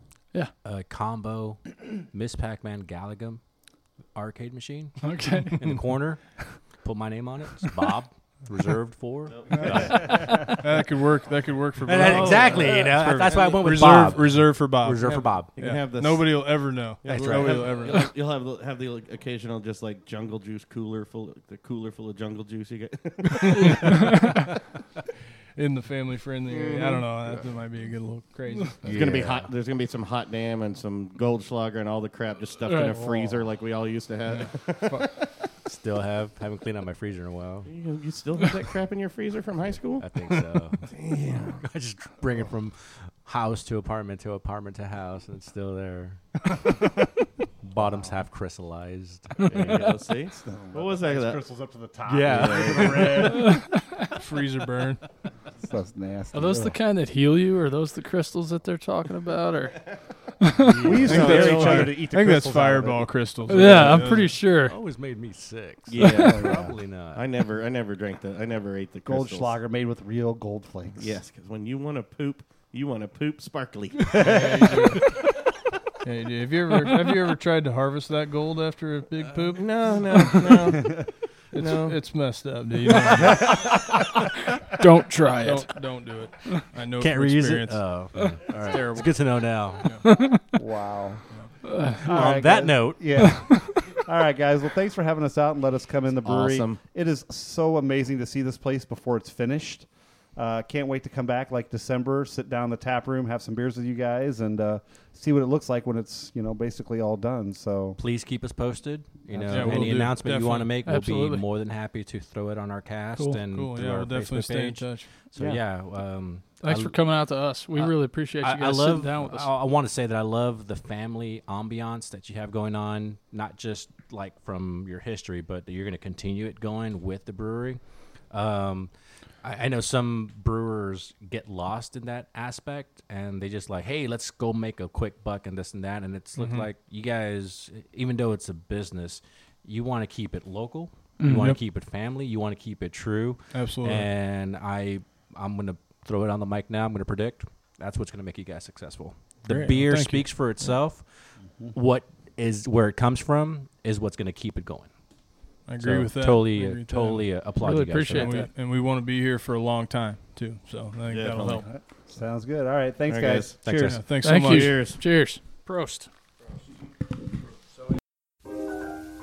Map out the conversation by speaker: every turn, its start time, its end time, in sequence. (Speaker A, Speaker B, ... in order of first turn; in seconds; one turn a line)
Speaker A: 0.6-3.4
Speaker A: 4.1-10.6
Speaker B: 5.0-5.6
Speaker C: 9.3-10.0
Speaker D: 9.5-18.1
Speaker A: 11.8-15.6
Speaker C: 11.9-13.6
Speaker C: 15.6-24.0
Speaker A: 17.1-17.8
Speaker D: 23.5-24.0
Speaker B: 23.6-24.4
Speaker D: 25.5-28.9
Speaker C: 26.5-27.4
Speaker A: 28.8-29.5
Speaker C: 28.8-35.1
Speaker B: 32.6-33.3
Speaker D: 34.3-35.1
Speaker A: 35.6-37.7
Speaker C: 37.6-40.1
Speaker A: 40.0-40.9
Speaker C: 40.9-41.6
Speaker A: 41.6-46.2
Speaker A: 47.6-49.9
Speaker E: 47.8-48.2
Speaker C: 49.5-51.4
Speaker E: 50.4-53.6
Speaker A: 52.0-53.1
Speaker C: 52.2-53.3
Speaker D: 52.8-55.0
Speaker B: 53.3-53.8
Speaker E: 55.6-56.7
Speaker B: 56.3-60.7
Speaker C: 60.7-62.0
Speaker E: 60.8-63.5
Speaker D: 61.0-64.4
Speaker B: 63.5-64.8
Speaker A: 63.6-67.2
Speaker C: 65.9-69.5
Speaker E: 66.0-66.7
Speaker E: 69.0-71.2
Speaker C: 71.0-75.0
Speaker D: 74.2-75.1
Speaker D: 76.0-80.8
Speaker C: 79.5-82.0
Speaker D: 81.5-83.8
Speaker B: 84.8-86.1
Speaker D: 85.4-90.0
Speaker A: 86.9-90.0
Speaker B: 90.0-90.4
Speaker E: 90.5-91.2
Speaker B: 91.6-92.0
Speaker E: 92.0-108.0
Speaker A: 92.0-93.3
Speaker B: 93.2-93.9
Speaker C: 96.2-96.8
Speaker A: 108.0-117.1
Speaker E: 109.3-110.1
Speaker D: 109.5-110.7
Speaker B: 110.8-111.4
Speaker B: 113.2-113.4
Speaker D: 113.5-115.2
Speaker E: 115.3-115.6
Speaker B: 116.6-119.5
Speaker A: 117.7-154.9
Speaker D: 136.3-136.7
Speaker B: 141.2-141.5
Speaker D: 141.2-141.6
Speaker D: 143.5-144.1
Speaker D: 149.4-150.4
Speaker D: 155.6-157.3
Speaker A: 155.8-158.4
Speaker B: 157.6-158.5
Speaker D: 158.1-161.7
Speaker C: 161.1-161.6
Speaker E: 161.3-164.0
Speaker C: 163.1-163.8
Speaker A: 163.6-164.0
Speaker D: 163.8-164.8
Speaker B: 164.2-166.1
Speaker C: 164.3-165.0